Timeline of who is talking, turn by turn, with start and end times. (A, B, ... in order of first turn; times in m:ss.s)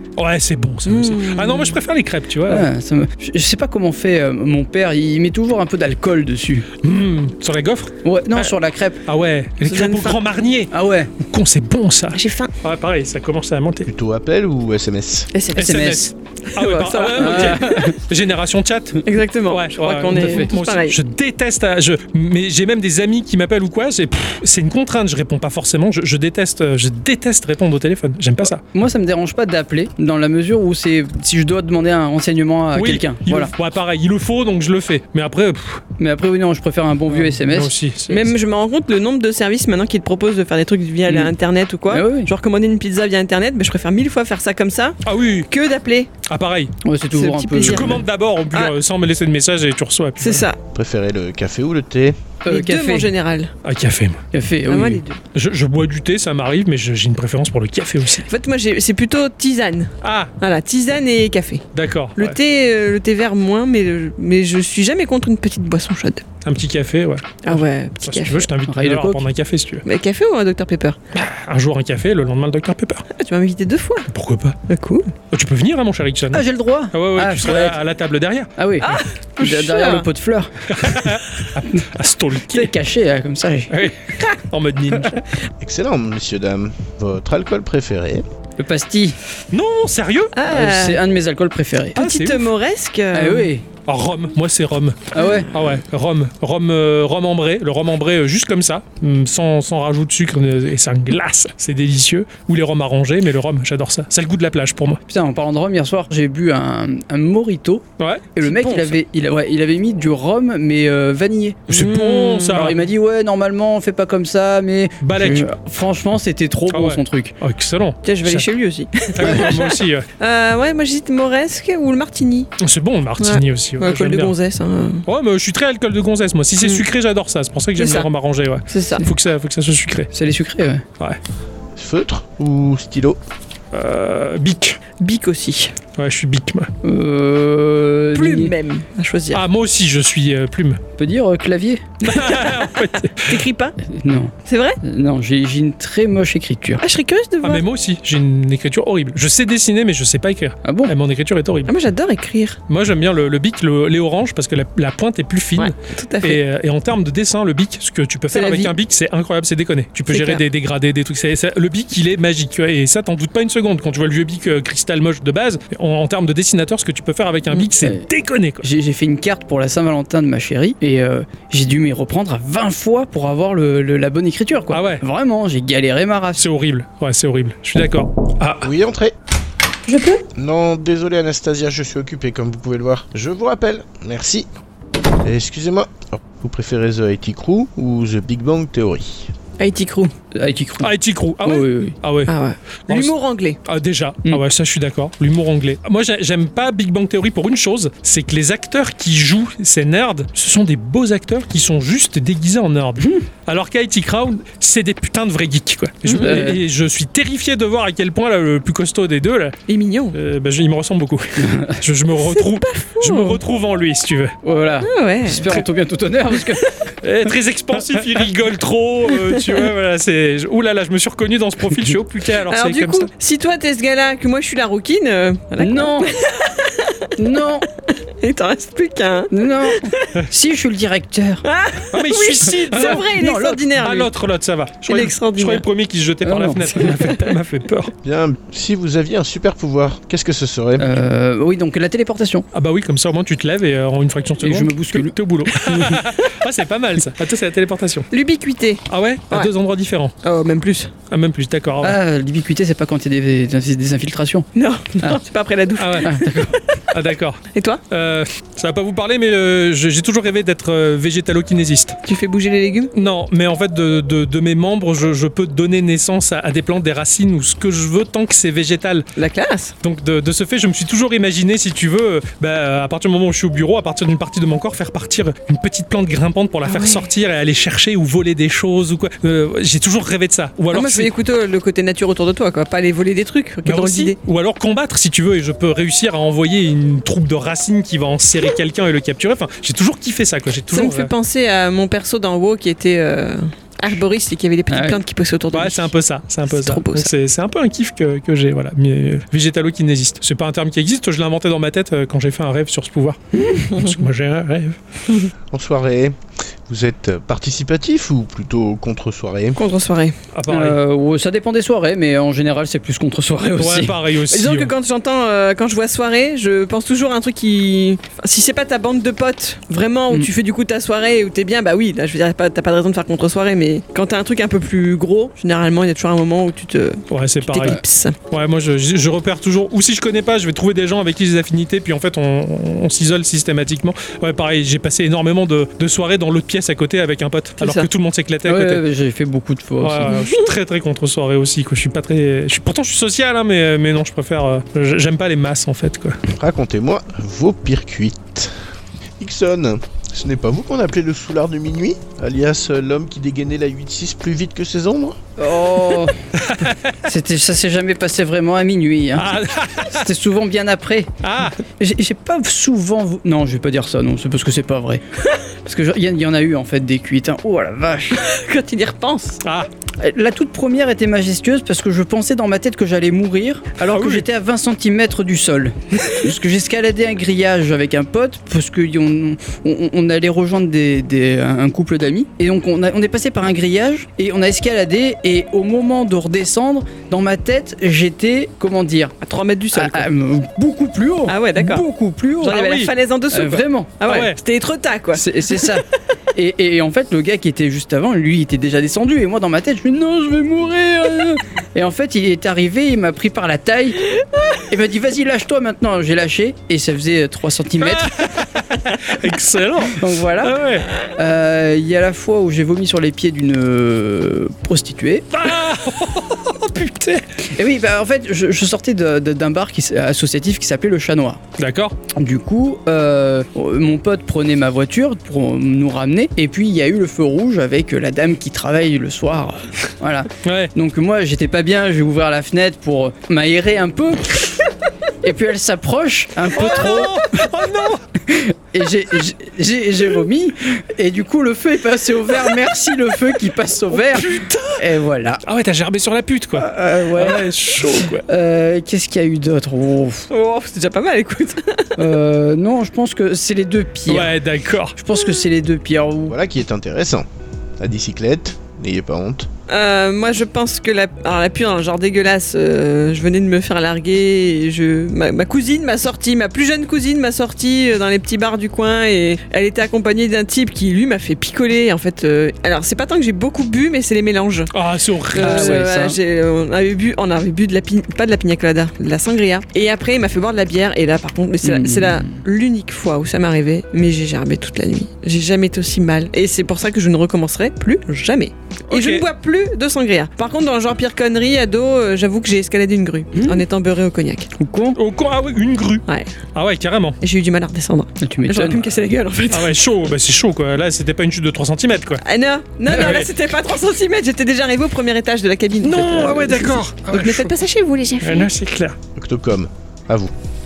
0:00.2-0:02.7 A
0:00.8-0:01.8 B
0:02.5-0:06.7 C
0:06.8-0:13.9 A
0:08.0-0:09.0 C
0:09.6-0:10.2 B
0:10.7-0:11.1 C
0:12.1-0:12.5 B
0:13.8-0:15.3 D
0:15.3-0:16.0 B
0:15.6-0:16.1 C
0:15.6-0:28.6 A
0:16.5-0:17.9 B
0:17.2-0:18.0 C
0:19.0-0:21.0 B
0:20.1-0:20.5 C
0:28.7-0:33.5 C
0:32.7-0:35.8 A
0:36.0-0:37.7 C
0:37.1-0:38.3 A
0:38.1-0:46.1 B
0:41.1-0:41.3 C
0:41.9-0:42.3 C
0:45.0-0:45.5 A
0:46.2-0:46.8 A
0:46.8-0:48.0 C
0:47.1-0:48.7 B
0:47.6-0:50.4 A
0:50.2-0:50.6 B
0:50.7-0:52.2 D
0:52.4-0:53.1 C
0:52.5-0:53.5 B
0:53.6-0:54.2 A
0:54.3-0:55.0 C
0:54.7-0:55.2 B
0:55.3-0:58.2 A
0:58.2-1:01.6 B
1:00.0-1:00.3 A
1:01.7-1:02.4 A
1:02.2-1:06.2 B
1:06.4-1:09.8 A
1:07.4-1:08.5 B
1:08.7-1:09.2 C
1:09.8-1:11.0 B
1:11.1-1:13.0 A
1:13.1-1:14.1 B
1:14.1-1:14.6 A
1:14.7-1:15.1 B
1:15.3-1:19.0 A
1:16.3-1:17.8 C
1:18.6-1:20.5 C
1:18.8-1:20.1 B
1:20.7-1:22.7 A
1:22.5-1:23.8 C
1:23.7-1:25.2 A
1:25.6-1:28.2 D
1:28.6-1:29.2 C
1:29.5-1:30.3 A
1:30.3-1:31.0 B
1:30.5-1:32.0 C
1:32.0-1:32.5 A
1:32.0-1:33.5 B
1:33.1-1:33.6 C
1:33.8-1:45.0 A
1:35.1-1:35.5 C
1:35.1-1:35.7 B
1:45.1-1:47.8 C
1:48.0-1:48.3 A
1:48.4-1:51.9 C
1:48.4-1:49.0 B
1:51.7-1:52.8 A
1:51.7-1:52.7 B
1:52.5-1:57.3 C
1:55.0-1:55.5 A
1:56.7-1:58.4 A
1:58.0-2:02.5 B
1:59.0-2:00.1 A
2:02.6-2:04.3 A
2:03.2-2:05.0 B
2:05.0-2:10.1 A
2:07.8-2:08.1 B
2:08.7-2:09.1 B
2:10.1-2:10.8 C
2:11.7-2:13.2 D
2:13.7-2:14.8 A
2:15.0-2:15.7 B
2:16.0-2:16.7 A
2:16.8-2:18.5 C
2:18.1-2:19.4 B
2:19.3-2:20.8 A
2:21.0-2:21.9 C
2:22.0-2:23.4 A
2:22.0-2:23.7 B
2:23.9-2:26.8 C
2:24.4-2:24.8 B
2:26.8-2:27.6 B
2:27.4-2:31.7 A
2:30.6-2:30.9 C
2:31.7-2:32.6 B
2:32.7-2:48.6 A
2:35.6-2:36.4 B
2:38.3-2:38.7 B
2:40.1-2:40.4 B
2:48.6-2:56.4 C
2:54.7-2:55.0 A
2:56.4-2:58.7 A
2:58.6-2:59.1 D
2:59.9-3:00.2 B
3:00.3-3:04.5 D
3:05.2-3:09.3 D
3:09.6-3:10.1 B
3:10.3-3:10.9 C
3:10.8-3:12.3 A
3:11.4-3:11.9 C
3:12.3-3:13.6 B
3:12.9-3:13.1 A
3:13.6-3:29.6 A
3:26.0-3:26.4 B
3:26.2-3:26.6 C
3:29.7-3:30.1 B
3:30.1-3:34.3 A
3:31.4-3:31.8 C
3:32.2-3:33.4 B
3:34.4-3:36.6 C
3:34.8-3:35.6 B
3:37.0-3:43.1 A
3:39.3-3:39.6 B
3:42.5-3:47.2 B
3:45.6-3:46.2 C
3:47.2-3:47.7 C
3:47.9-3:50.2 B
3:49.3-3:51.4 C
3:51.4-3:54.1 B
3:51.9-3:53.1 A
3:52.7-3:53.8 C
3:53.8-3:57.9 A
3:54.9-3:55.6 B
3:56.2-3:56.8 C
3:56.9-3:57.2 B
3:58.0-4:01.1 D
4:00.8-4:02.4 C
4:02.5-4:08.1 A
4:04.4-4:06.0 C
4:08.1-4:09.5 B
4:08.9-4:10.1 A
4:10.2-4:10.9 B
4:11.1-4:12.0 A
4:11.8-4:14.5 C
4:14.5-4:16.6 B
4:15.8-4:16.4 A
4:16.0-4:16.5 C
4:16.9-4:22.0 A
4:17.5-4:17.8 B
4:22.0-4:22.9 B
4:22.9-4:29.1 A
4:29.2-4:29.7 B
4:29.8-4:41.1 A
4:36.6-4:37.1 B
4:40.7-4:44.2 B
4:43.6-4:51.1 A
4:50.7-4:55.9 B
4:54.7-4:55.0 C
4:55.5-5:04.8 A
4:56.4-4:57.1 B
5:05.5-5:09.6 D
5:09.6-5:10.1 B
5:10.3-5:10.8 A
5:10.5-5:14.0 C
5:13.6-5:14.7 A
5:14.3-5:28.2 B
5:27.1-5:38.8 A
5:37.6-5:37.9 B
5:38.4-5:40.2 C
5:39.8-5:46.2 A
5:40.1-5:40.4 B
5:46.3-5:48.5 D
5:49.2-5:55.2 D
5:55.4-5:56.2 C
5:56.4-5:57.0 A
5:57.0-6:01.1 C
5:59.2-6:00.0 A
6:01.2-6:01.6 A
6:01.7-6:05.0 C
6:05.6-6:08.2 C
6:08.1-6:09.4 B
6:10.0-6:29.2 C
6:13.8-6:14.2 A
6:29.2-6:30.1 B
6:29.7-6:32.6 C
6:31.3-6:31.8 B
6:32.4-6:35.7 B
6:32.4-6:32.9 A
6:33.3-6:34.0 C
6:34.0-6:34.4 A
6:35.1-6:44.1 C
6:44.7-6:48.2 C
6:47.8-6:50.9 A
6:49.9-6:50.5 C
6:51.0-6:55.3 C
6:55.3-6:57.2 A
6:57.5-7:01.4 C
7:01.6-7:02.0 A
7:02.1-7:14.5 C
7:10.4-7:10.7 A
7:15.2-7:17.3 C
7:16.5-7:18.0 A
7:18.2-7:25.4 C
7:23.9-7:24.8 A
7:25.4-7:28.2 A
7:26.5-7:30.3 C
7:30.3-7:31.9 B
7:32.0-7:34.3 C
7:34.1-7:35.0 A
7:35.0-7:36.4 C
7:36.3-7:37.3 D
7:37.8-7:39.5 D
7:39.7-7:54.7 B
7:54.7-7:55.8 A
7:55.3-7:56.2 C
7:55.3-8:14.5 B
8:01.6-8:02.4 C
8:08.9-8:09.2 A
8:13.3-8:13.6 C
8:14.6-8:15.0 C
8:14.9-8:17.2 A
8:17.2-8:19.7 B
8:18.2-8:18.8 C
8:19.5-8:22.2 A
8:22.2-8:28.5 B
8:22.9-8:23.3 A
8:25.8-8:27.5 A
8:28.2-8:29.0 A
8:29.2-8:30.3 D